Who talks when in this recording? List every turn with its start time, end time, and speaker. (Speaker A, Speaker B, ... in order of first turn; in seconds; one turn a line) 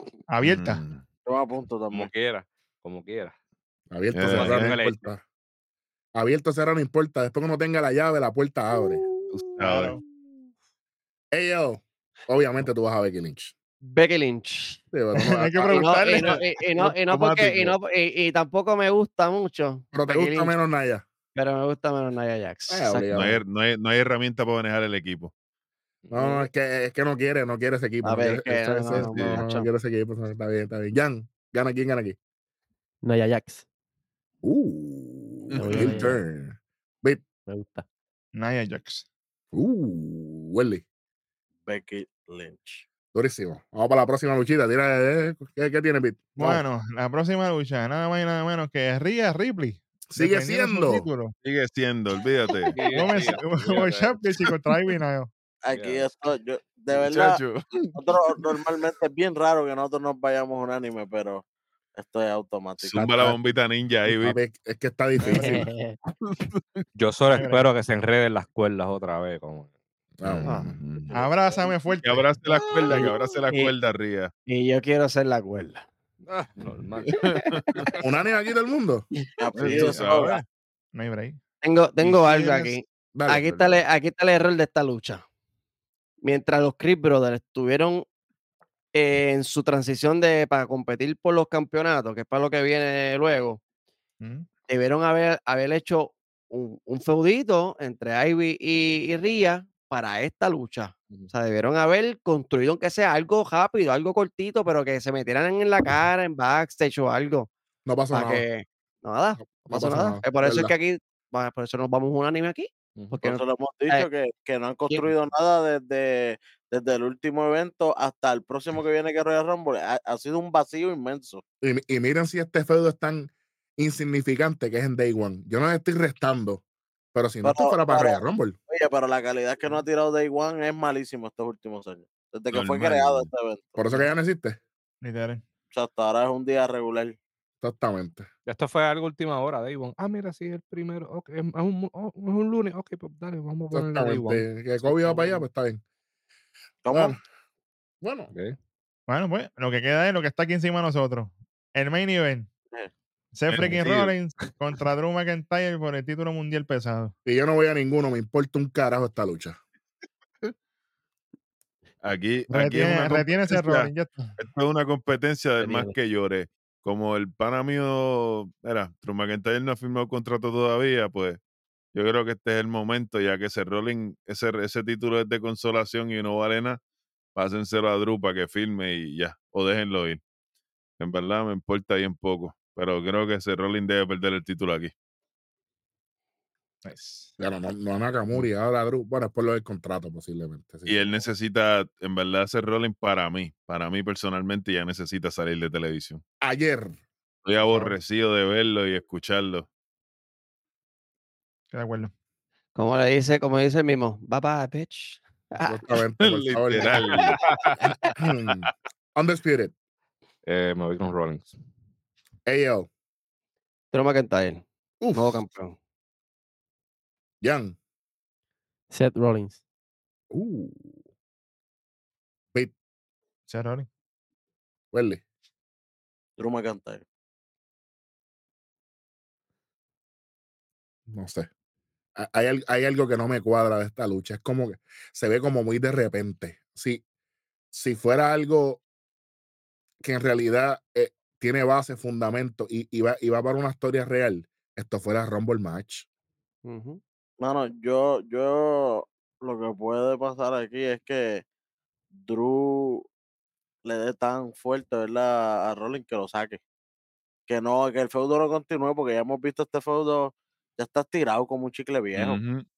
Speaker A: 0.3-0.8
Speaker B: 0.4-1.0
Speaker C: 1.3-2.1
Speaker D: 1.9-3.4
Speaker E: 3.9-5.2
Speaker B: 4.1-4.8
Speaker D: 4.3-5.0
Speaker E: 6.1-9.1
Speaker B: 9.3-10.0
Speaker A: 9.6-10.0
Speaker E: 11.3-13.6
Speaker F: 13.8-14.8
Speaker E: 14.9-16.0
Speaker A: 15.1-16.4
Speaker F: 15.6-20.5
Speaker B: 16.9-17.7
Speaker E: 19.9-21.1
Speaker F: 21.4-23.3
Speaker E: 22.7-23.4
Speaker B: 23.1-25.3
Speaker D: 26.1-26.4
Speaker E: 26.1-32.2
Speaker F: 28.0-29.7
Speaker B: 28.9-29.4
Speaker G: 33.0-33.6
Speaker E: 34.4-37.2
Speaker B: 35.5-36.0
Speaker G: 35.6-36.2
Speaker G: 37.5-37.9
Speaker A: 38.3-39.0
Speaker E: 39.5-40.8
Speaker C: 41.6-42.9
Speaker E: 43.1-46.6
Speaker A: 46.4-51.4
Speaker E: 50.1-51.1
Speaker B: 51.4-53.1
Speaker A: 52.7-55.3
Speaker D: 52.7-54.3
Speaker C: 55.6-57.4
Speaker D: 55.7-56.1
Speaker B: 56.9-58.0
Speaker C: 58.0-61.4
Speaker C: 62.0-63.0
Speaker B: 62.8-64.4
Speaker E: 63.0-63.4
Speaker E: 64.1-65.7
Speaker C: 65.2-65.5
Speaker G: 65.3-66.0
Speaker B: 66.2-66.8
Speaker D: 67.0-69.7
Speaker A: 67.3-67.7
Speaker E: 70.2-70.8
Speaker B: 70.2-71.1
Speaker C: 71.1-71.9
Speaker A: 71.1-72.3
Speaker B: 72.0-74.3
Speaker F: 72.9-73.7
Speaker F: 74.5-75.8
Speaker D: 76.2-77.1
Speaker B: 77.1-77.8
Speaker E: 78.0-79.1
Speaker F: 79.2-79.5
Speaker C: 79.4-80.4
Speaker B: 79.5-80.4
Speaker A: 79.6-80.4
Speaker A: 80.9-81.4
Speaker F: 81.6-85.2
Speaker B: 82.0-82.3
Speaker E: 83.1-83.6
Speaker F: 86.2-88.0
Speaker F: 88.9-93.6
Speaker A: 94.2-94.5
Speaker F: 94.7-107.5
Speaker E: 107.8-108.5
Speaker F: 108.1-114.1
Speaker E: 109.4-110.7
Speaker C: 113.2-121.4
Speaker E: 121.6-126.6
Speaker E: 127.1-128.6
Speaker C: 127.4-134.1
Speaker B: 132.5-133.3
Speaker E: 133.8-134.6
Speaker A: 135.0-135.4
Speaker C: 135.7-137.2
Speaker E: 137.6-138.3
Speaker D: 138.4-145.5
Speaker E: 143.7-145.8
Speaker C: 146.8-147.2
Speaker E: 146.9-147.2
Speaker E: 148.0-148.3
Speaker A: 149.1-152.5
Speaker A: 153.3-157.1
Speaker B: 153.5-154.1
Speaker E: 157.2-159.6
Speaker B: 162.0-171.4
Speaker A: 162.5-164.4
Speaker G: 165.6-165.9
Speaker B: 171.9-176.8
Speaker B: 177.3-180.2
Speaker B: 181.0-184.9
Speaker A: 186.8-187.3
Speaker E: 187.4-191.0
Speaker B: 190.8-196.2
Speaker E: 196.4-197.0
Speaker B: 197.4-199.7
Speaker A: 197.6-198.0
Speaker A: 201.7-202.1
Speaker F: 202.7-205.9
Speaker E: 205.7-207.2
Speaker B: 206.2-207.7
Speaker E: 208.2-209.7
Speaker D: 210.4-211.6
Speaker E: 212.4-212.9
Speaker F: 213.9-215.8
Speaker E: 215.0-215.4
Speaker E: 217.4-217.8
Speaker G: 218.9-219.6
Speaker E: 220.3-221.0
Speaker A: 223.5-223.9
Speaker E: 224.9-225.2
Speaker C: 226.4-227.0
Speaker E: 231.1-231.5
Speaker E: 232.2-237.0
Speaker E: 237.7-238.8
Speaker E: 240.0-246.1
Speaker F: 246.7-247.0
Speaker C: 247.4-251.4
Speaker C: 252.1-253.1
Speaker C: 253.8-256.6
Speaker C: 257.5-262.4
Speaker B: 262.1-262.6